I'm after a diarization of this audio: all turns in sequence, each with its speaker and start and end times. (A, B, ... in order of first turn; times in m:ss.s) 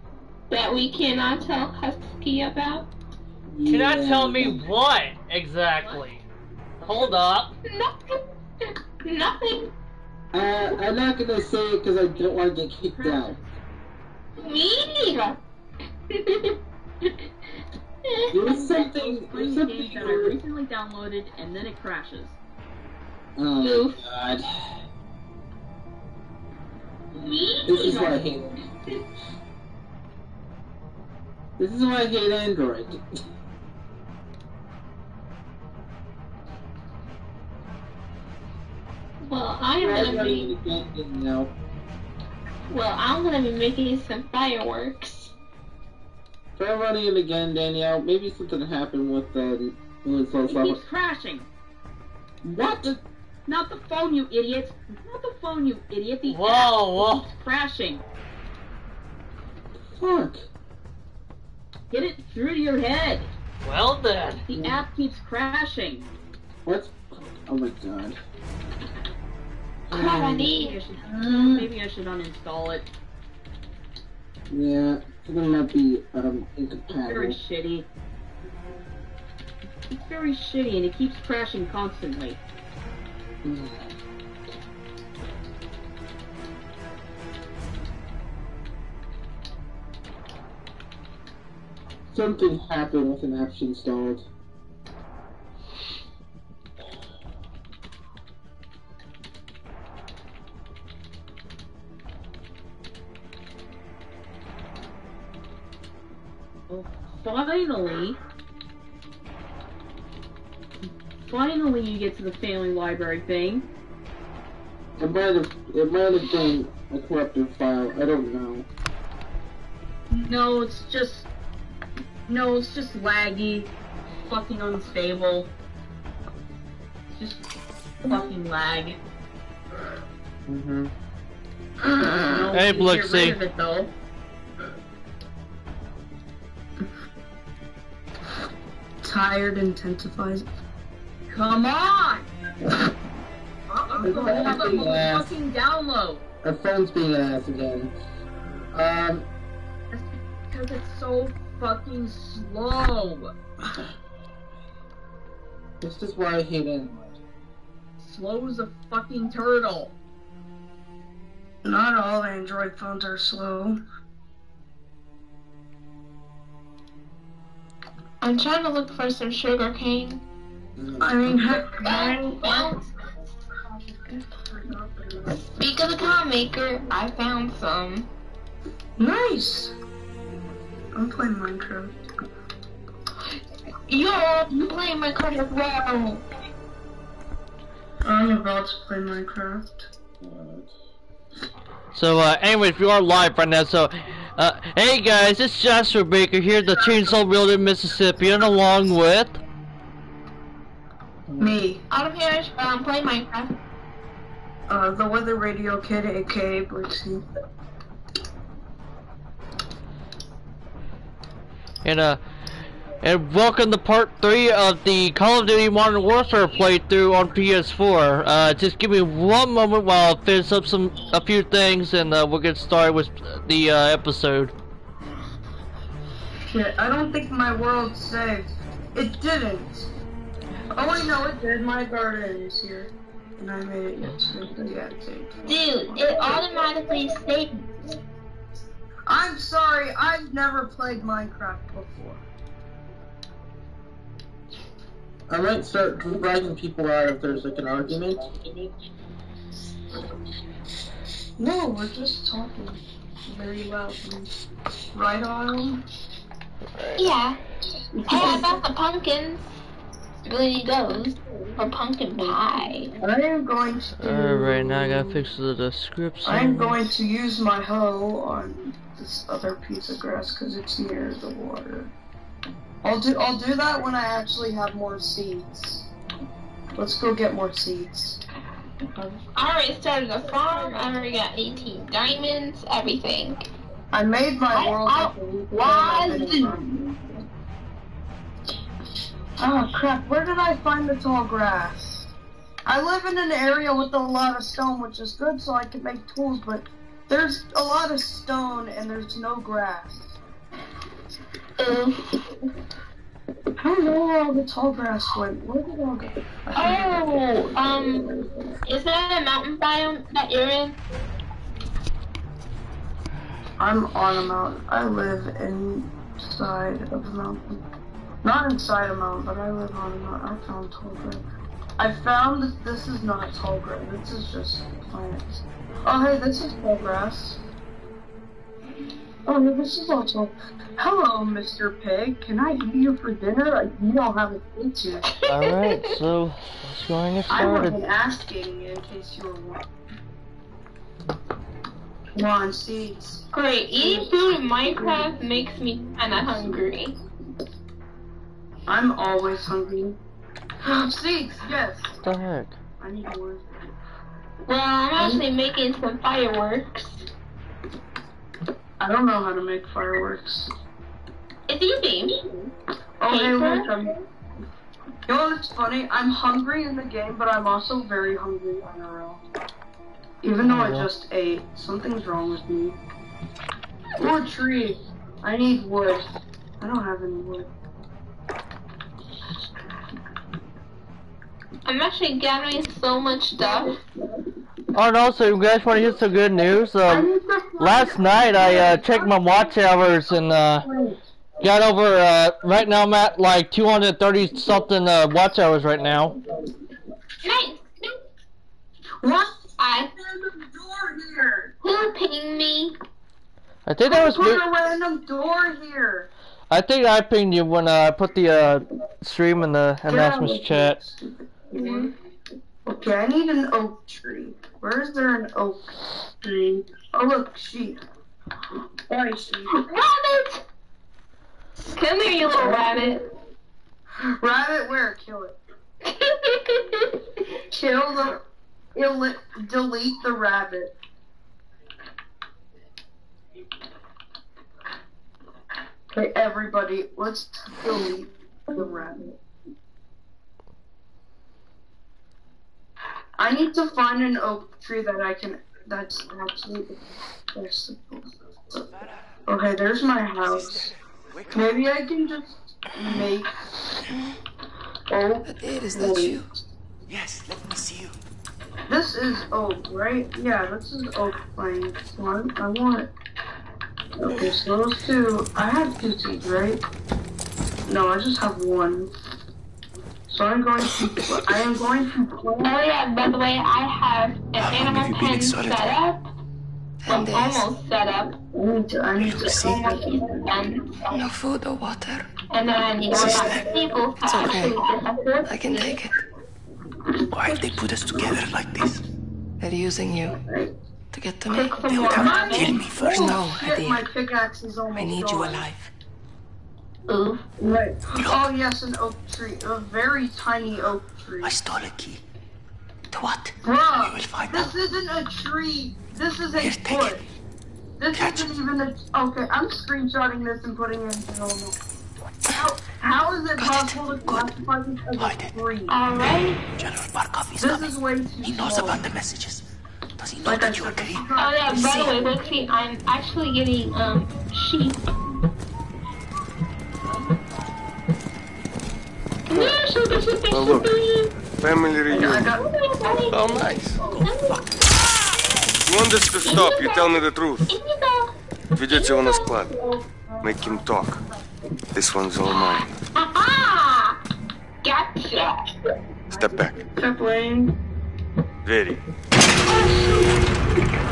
0:00.5-0:02.9 A
0:03.4-0:04.7 B
0:03.6-0:06.2 C
0:05.8-0:06.2 D
0:06.8-0:07.5 C
0:07.7-0:08.2 A
0:09.0-0:09.7 A
0:10.3-0:13.4 B
0:12.9-0:13.5 D
0:14.4-0:15.3 A
0:16.1-0:16.6 A
0:18.3-0:20.4 B
0:18.4-0:22.4 D
0:23.4-0:24.4 B
0:23.6-0:23.9 A
0:27.1-0:28.2 A
0:27.6-0:28.5 B
0:31.6-0:33.0 B
0:39.2-0:40.5 A
0:39.8-0:41.5 B
0:42.7-0:45.3 A
0:46.6-0:50.8 B
0:50.4-0:51.5 D
0:52.4-0:58.0 D
0:52.6-0:53.0 B
0:56.3-0:57.3 C
0:59.8-1:00.4 B
1:01.9-1:03.3 D
1:03.6-1:04.4 C
1:04.5-1:06.1 D
1:04.5-1:04.8 B
1:06.6-1:08.2 B
1:09.9-1:10.8 A
1:09.9-1:10.3 B
1:10.0-1:12.8 D
1:11.0-1:11.7 B
1:14.5-1:17.4 B
1:17.0-1:17.8 D
1:19.9-1:22.4 D
1:23.4-1:23.8 B
1:32.1-1:34.2 B
1:46.7-1:48.2 D
1:51.2-1:53.6 D
1:55.0-1:58.7 B
2:00.1-2:01.3 D
2:02.3-2:03.7 D
2:04.2-2:05.5 D
2:07.1-2:07.4 D
2:08.0-2:09.0 D
2:10.5-2:10.9 B
2:12.1-2:13.9 D
2:12.5-2:13.4 C
2:19.0-2:20.4 E
2:21.3-2:22.3 D
2:23.7-2:26.2 D
2:23.9-2:24.7 E
2:24.0-2:25.3 B
2:26.4-2:27.9 B
2:28.7-2:29.3 B
2:29.9-2:33.3 D
2:35.8-2:37.1 B
2:38.0-2:39.9 D
2:41.6-2:43.8 E
2:48.2-2:50.2 A
2:50.8-2:51.6 B
2:51.0-2:52.7 E
2:51.8-2:52.8 A
2:53.6-2:55.4 E
2:55.5-2:58.1 A
2:59.0-2:59.7 E
3:00.9-3:01.9 E
3:03.9-3:06.2 A
3:08.0-3:09.9 E
3:10.2-3:10.7 B
3:11.9-3:19.4 C
3:16.7-3:17.1 E
3:21.3-3:21.5 B
3:21.4-3:21.8 E
3:21.9-3:23.5 A
3:24.7-3:27.2 E
3:31.8-3:32.2 C
3:33.0-3:44.5 C
3:46.5-3:49.9 E
3:50.7-3:56.5 E
3:55.4-3:57.7 A
3:59.1-4:02.2 E
4:05.3-4:08.2 B
4:11.4-4:14.3 E
4:14.9-4:15.8 E
4:17.0-4:17.4 A
4:17.9-4:18.6 E
4:18.1-4:19.5 A
4:20.2-4:22.9 A
4:22.2-4:25.2 E
4:24.0-4:26.8 C
4:26.2-4:31.9 E
4:32.8-4:35.9 E
4:36.7-4:38.2 E
4:39.3-4:43.4 A
4:43.9-4:47.0 E
4:44.5-4:46.6 A
4:49.4-4:52.1 E
4:52.6-5:00.2 E
5:01.6-5:02.0 A
5:03.6-5:08.6 E
5:06.5-5:08.1 A
5:08.6-5:10.8 A
5:13.6-5:17.6 E
5:18.2-5:21.2 E
5:21.8-5:27.4 E
5:29.2-5:35.0 E
5:35.2-5:35.8 A
5:35.3-5:37.8 C
5:37.3-5:39.7 E
5:42.1-5:43.2 E
5:43.3-5:46.9 A
5:43.7-5:45.2 E
5:46.3-5:46.6 E
5:48.7-5:50.0 E
5:50.6-5:52.0 E
5:52.0-5:52.6 C
5:52.8-5:53.4 E
5:54.4-5:57.0 A
5:55.0-5:55.2 E
5:58.8-6:00.5 E
6:01.5-6:02.2 A
6:03.0-6:04.0 E
6:03.1-6:03.7 A
6:05.1-6:09.2 E
6:10.2-6:12.8 E
6:10.4-6:10.9 C
6:14.0-6:17.5 E
6:21.6-6:23.8 A
6:23.4-6:23.7 E
6:24.7-6:30.7 C
6:26.9-6:31.0 E
6:31.4-6:36.1 C
6:37.2-6:37.6 A
6:39.0-6:39.3 E
6:39.6-6:39.9 A
6:39.9-6:41.5 E
6:41.6-6:42.8 A
6:43.6-6:44.4 C
6:43.8-6:46.1 E
6:46.5-6:50.8 C
6:49.8-6:51.9 E
6:51.5-6:51.9 A
6:52.6-6:55.7 E
6:56.2-6:57.8 E
6:58.9-6:59.7 E
6:59.5-7:00.4 A
7:01.7-7:03.0 A
7:02.3-7:02.8 E
7:04.0-7:05.4 E
7:05.8-7:06.9 A
7:07.5-7:08.2 E
7:08.7-7:10.7 E
7:15.9-7:19.2 E
7:23.2-7:26.8 E
7:27.3-7:28.6 E
7:29.3-7:30.7 E
7:30.2-7:30.6 F
7:31.1-7:31.6 F
7:31.3-7:33.4 E
7:34.9-7:36.4 E
7:35.2-7:36.2 G
7:36.9-7:37.9 F
7:37.3-7:37.6 H
7:38.7-7:42.9 E
7:44.0-7:46.6 E
7:47.7-7:48.9 E
7:50.1-7:52.6 E
7:52.4-7:56.0 A
7:54.4-7:55.7 H
7:56.8-7:57.5 G
7:56.9-7:58.1 A
7:58.3-8:00.3 E
7:59.2-7:59.6 G
7:59.3-8:01.0 A
8:00.9-8:02.1 G
8:02.3-8:05.8 A
8:02.9-8:03.8 E
8:03.0-8:03.4 H
8:04.0-8:04.6 G
8:05.2-8:05.9 G
8:07.1-8:08.8 H
8:09.4-8:10.2 G
8:10.1-8:10.5 E
8:10.9-8:12.0 G
8:11.3-8:12.6 A
8:11.6-8:13.2 H
8:12.0-8:15.5 E
8:12.9-8:13.8 G
8:14.7-8:15.7 G
8:16.9-8:17.2 A
8:17.4-8:21.4 E
8:18.0-8:18.2 H
8:21.2-8:22.0 H
8:22.9-8:24.5 H
8:23.4-8:27.0 E
8:26.4-8:27.0 H
8:27.8-8:31.5 E
8:27.9-8:28.3 H
8:32.3-8:35.7 E
8:33.4-8:34.2 G
8:35.0-8:35.3 H
8:35.7-8:36.4 A
8:36.6-8:39.4 H
8:37.4-8:38.9 E
8:40.0-8:41.0 H
8:40.2-8:42.2 E
8:41.2-8:44.8 A
8:49.3-8:51.1 A
8:49.3-8:49.6 F
8:50.3-8:50.7 F
8:51.4-8:52.3 F
8:51.9-8:52.5 E
8:52.0-8:54.4 A
8:53.1-8:53.8 F
8:55.6-8:57.5 F
8:56.2-8:58.1 A
8:58.5-8:59.6 F
8:58.7-8:59.4 A
8:59.6-9:01.4 E
9:00.2-9:01.0 F
9:01.7-9:02.7 F
9:02.3-9:04.0 A
9:04.6-9:05.4 A
9:06.1-9:06.6 F
9:06.1-9:07.5 E
9:08.4-9:08.8 F
9:09.4-9:10.3 E